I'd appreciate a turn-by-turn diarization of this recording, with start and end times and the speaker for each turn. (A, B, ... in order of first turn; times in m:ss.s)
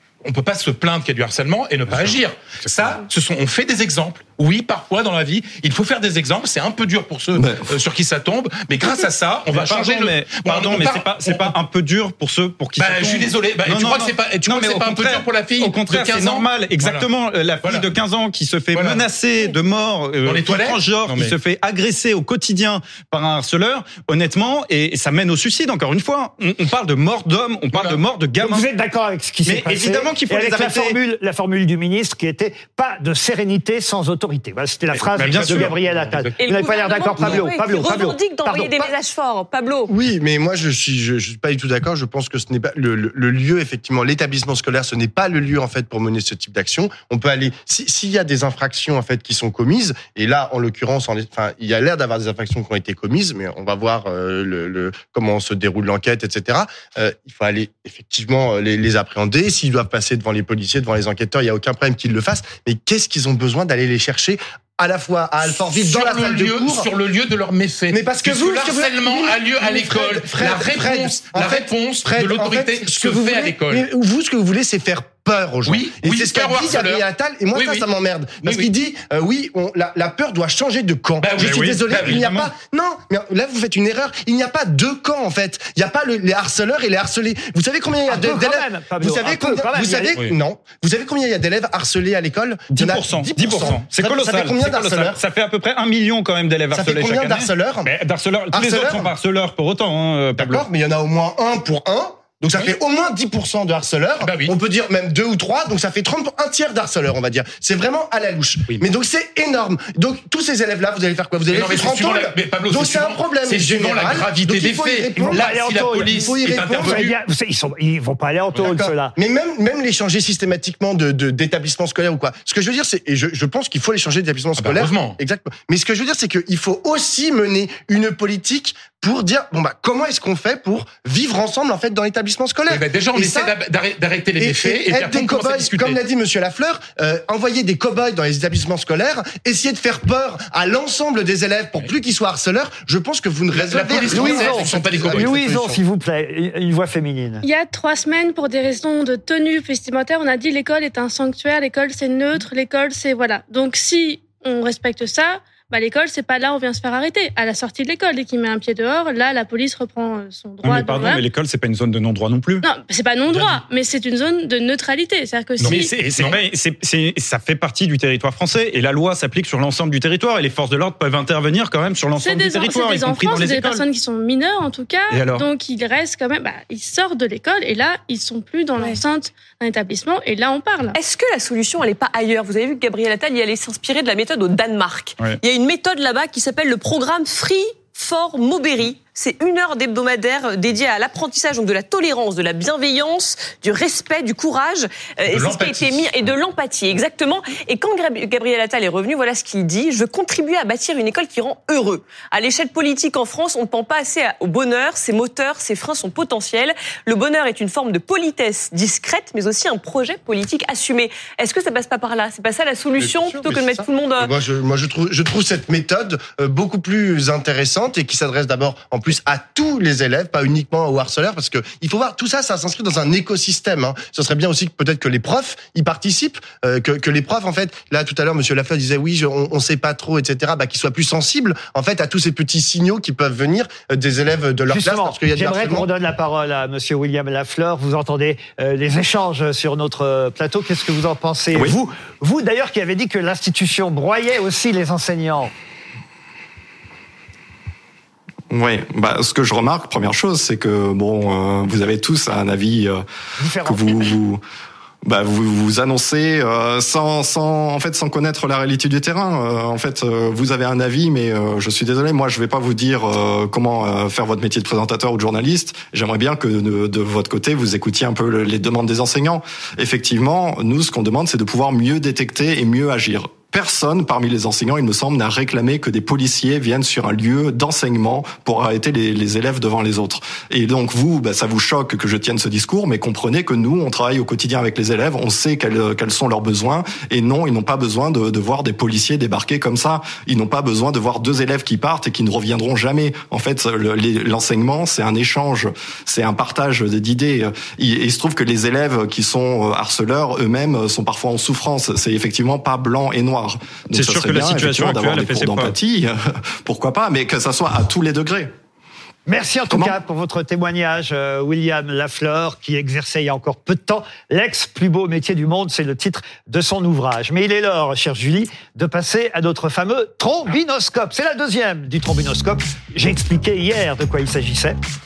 0:00.2-0:11.5 A
0:07.4-0:07.7 B
0:09.5-0:28.6 C
0:12.8-0:17.1 A
0:17.6-0:17.9 A
0:18.7-0:19.0 A
0:20.2-0:21.4 A
0:27.7-0:28.0 A
0:28.4-0:38.9 D
0:29.4-0:31.0 C
0:35.0-0:36.4 A
0:35.1-0:35.8 C
0:36.4-0:39.9 E
0:39.9-1:06.9 F
1:05.4-1:13.9 A
1:07.9-1:35.2 F
1:15.6-1:17.9 A
1:18.4-1:18.7 A
1:21.2-1:22.2 A
1:21.4-1:22.5 C
1:28.1-1:30.2 D
1:32.7-1:40.6 C
1:36.7-1:37.9 F
1:38.5-1:39.1 F
1:40.4-1:57.1 F
1:44.2-1:44.5 A
1:51.5-1:57.1 A
1:55.2-1:59.1 D
1:58.5-2:13.5 F
2:04.6-2:05.2 A
2:12.7-2:16.0 A
2:14.4-2:25.7 F
2:23.5-2:25.8 A
2:24.1-2:27.4 D
2:27.4-2:41.2 G
2:40.6-2:42.6 C
2:42.6-2:45.9 G
2:43.3-2:43.6 A
2:45.6-2:46.4 A
2:45.6-2:53.8 C
2:52.2-3:01.0 G
2:55.1-2:55.5 C
3:00.9-3:34.3 E
3:15.3-3:16.3 A
3:33.0-3:55.9 F
3:54.7-4:05.5 D
4:08.5-4:13.0 B
4:13.4-4:14.1 D
4:13.6-4:14.4 B
4:15.0-5:08.5 B
5:03.9-5:05.8 C
5:09.3-5:24.8 D